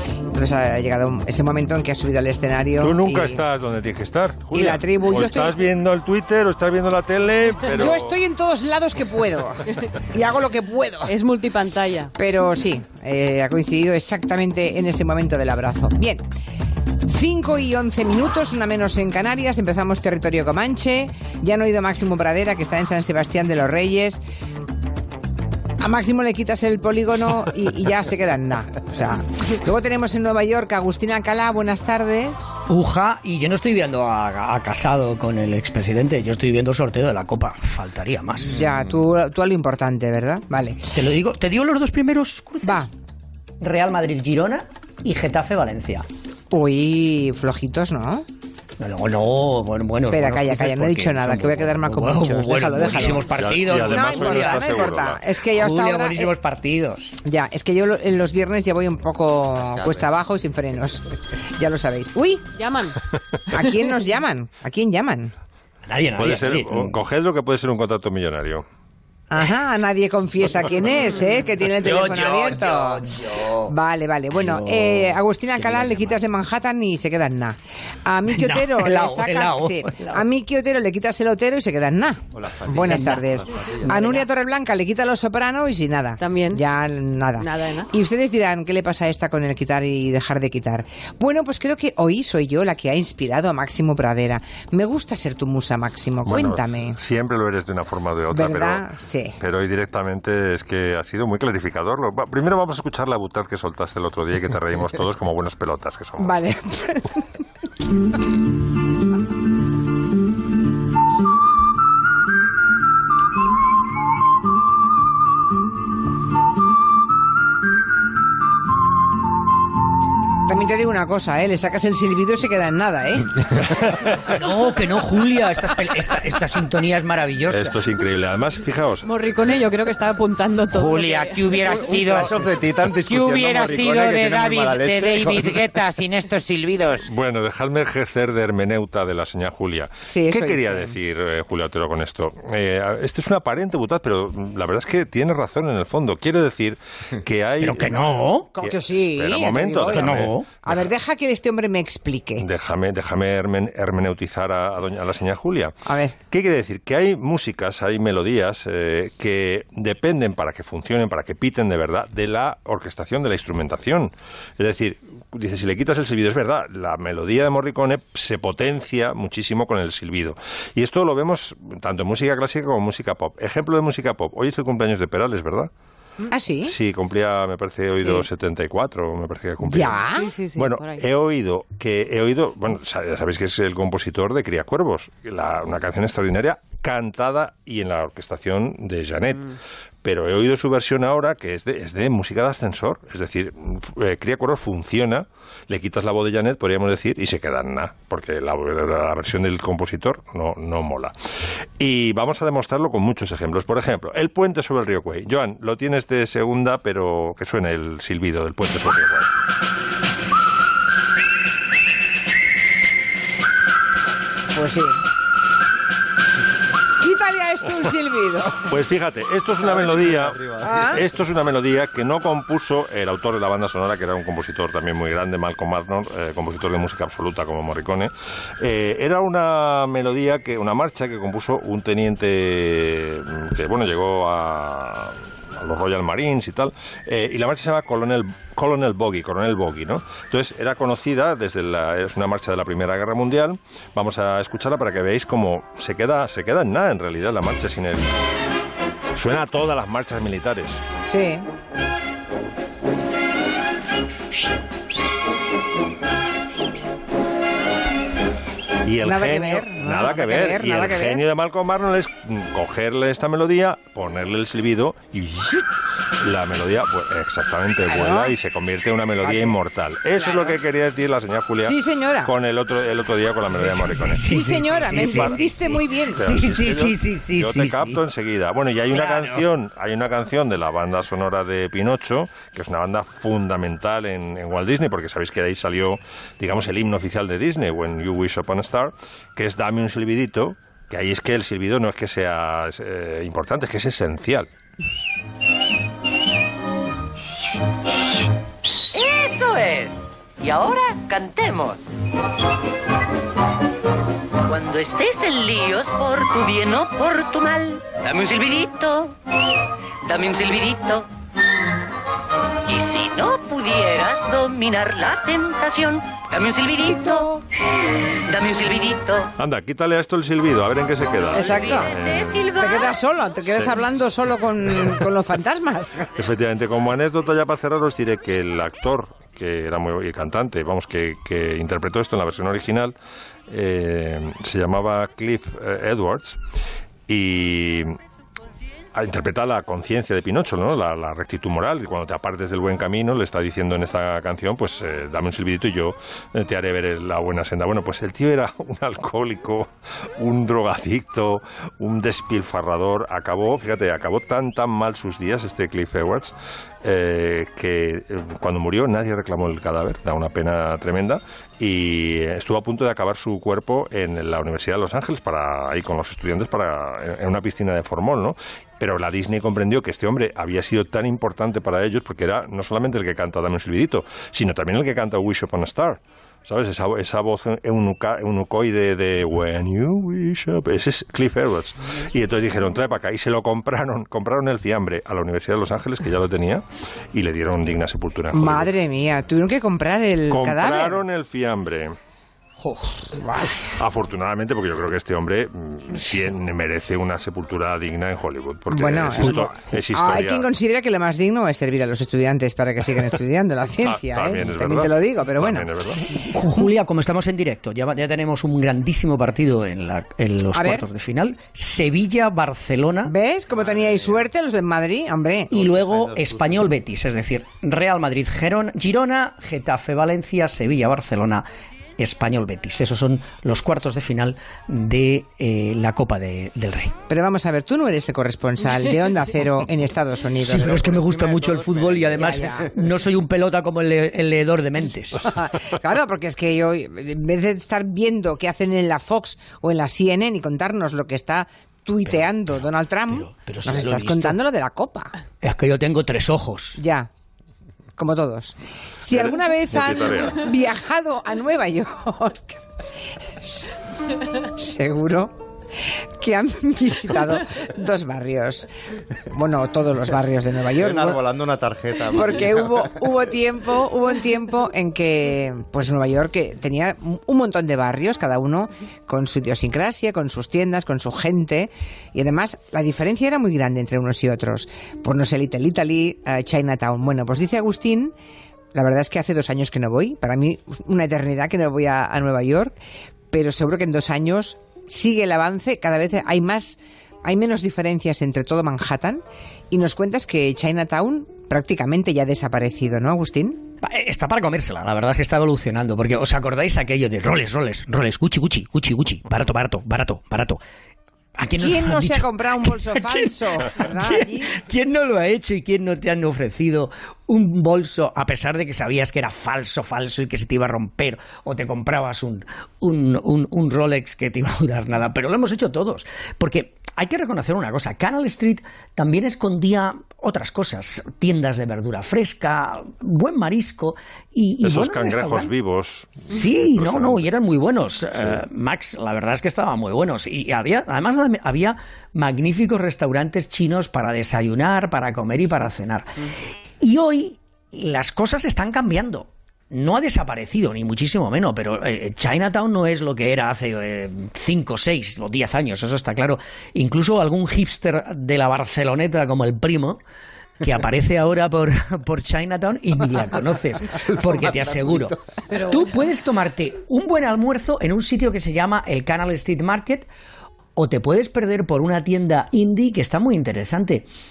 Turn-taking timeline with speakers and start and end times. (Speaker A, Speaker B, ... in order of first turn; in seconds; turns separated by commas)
Speaker A: 0.3-3.4, Speaker B: 2.8-8.2, Speaker A: 4.5-5.5, Speaker A: 7.8-11.1, Speaker C: 11.1-12.1, Speaker A: 12.1-16.2, Speaker A: 17.1-24.2, Speaker A: 25.8-32.5, Speaker D: 32.7-38.6, Speaker A: 38.5-40.9, Speaker D: 40.9-42.9, Speaker A: 42.6-42.9, Speaker D: 43.6-46.0, Speaker A: 46.5-48.2, Speaker D: 48.8-55.0, Speaker A: 50.1-53.2, Speaker B: 53.3-55.2, Speaker A: 53.9-56.3, Speaker D: 55.5-57.2, Speaker A: 57.2-62.5, Speaker E: 59.5-60.1, Speaker C: 62.6-63.0, Speaker A: 63.5-65.3, Speaker D: 65.9-66.9, Speaker B: 66.2-68.6, Speaker A: 69.3-73.1, Speaker D: 71.8-73.7, Speaker A: 73.6-97.0, Speaker D: 74.3-76.2, Speaker D: 78.2-80.2, Speaker E: 82.3-83.9, Speaker D: 82.8-83.2, Speaker D: 83.7-84.3, Speaker C: 86.2-86.6, Speaker C: 87.4-87.9, Speaker B: 96.2-98.9, Speaker A: 98.3-99.3, Speaker B: 99.4-106.4, Speaker A: 106.2-107.2, Speaker A: 120.5-123.3, Speaker D: 124.3-127.8, Speaker B: 127.5-129.1, Speaker C: 129.1-131.7, Speaker F: 130.7-132.4, Speaker E: 131.6-135.8, Speaker F: 133.1-137.1, Speaker B: 137.1-150.8, Speaker A: 140.1-141.0, Speaker D: 147.6-148.5, Speaker A: 148.6-152.4, Speaker D: 149.9-150.5, Speaker B: 152.4-155.8, Speaker A: 155.8-156.2, Speaker B: 156.3-175.7, Speaker A: 176.3-176.7, Speaker B: 176.7-201.1, Speaker A: 179.7-180.3, Speaker C: 180.1-181.0, Speaker B: 201.8-209.3, Speaker A: 214.5-215.0, Speaker A: 217.0-218.6, Speaker B: 218.7-248.2, Speaker E: 219.6-220.9, Speaker A: 220.6-221.0, Speaker B: 249.2-250.8, Speaker A: 251.1-251.4, Speaker B: 258.9-265.7, Speaker A: 259.0-261.2, Speaker B: 266.2-274.2, Speaker A: 267.9-268.3, Speaker A: 269.2-269.6, Speaker A: 270.2-270.6, Speaker A: 271.6-272.3, Speaker D: 273.5-278.0, Speaker A: 274.3-276.3, Speaker B: 274.7-275.4, Speaker B: 276.2-294.5, Speaker D: 278.9-279.4, Speaker G: 298.9-301.9, Speaker G: 304.4-309.2, Speaker G: 310.1-311.1, Speaker G: 312.7-317.3, Speaker A: 316.8-317.4, Speaker G: 318.2-319.3, Speaker B: 319.4-322.4, Speaker A: 321.3-321.9, Speaker G: 321.4-323.0, Speaker A: 322.6-326.1, Speaker B: 323.6-323.8, Speaker B: 326.1-332.9, Speaker B: 333.5-336.4, Speaker B: 337.1-338.0, Speaker B: 338.9-388.7, Speaker A: 388.3-391.0, Speaker B: 390.3-391.9, Speaker D: 392.6-393.7, Speaker B: 393.8-400.5, Speaker A: 398.7-405.7, Speaker B: 403.8-406.1, Speaker D: 406.3-413.1, Speaker A: 410.5-410.9, Speaker A: 413.1-415.5, Speaker D: 415.5-421.4, Speaker E: 415.5-416.8, Speaker D: 422.0-426.9, Speaker A: 427.1-430.8, Speaker D: 430.4-435.3, Speaker E: 430.5-432.4, Speaker A: 432.2-432.7, Speaker A: 435.2-445.1, Speaker D: 442.1-442.4, Speaker D: 443.1-444.4, Speaker D: 445.4-446.8, Speaker A: 446.8-447.1, Speaker A: 448.0-452.6, Speaker B: 449.1-450.5, Speaker A: 453.4-453.7, Speaker A: 454.4-458.7, Speaker A: 459.3-461.2, Speaker E: 460.7-462.9, Speaker A: 462.1-478.1, Speaker A: 478.7-482.8, Speaker A: 483.3-493.6, Speaker D: 493.8-500.6, Speaker D: 501.4-525.5, Speaker A: 501.6-504.6, Speaker B: 524.6-527.3, Speaker D: 526.3-536.3, Speaker D: 536.8-550.0, Speaker D: 550.6-560.0, Speaker E: 554.4-555.1, Speaker D: 560.8-564.0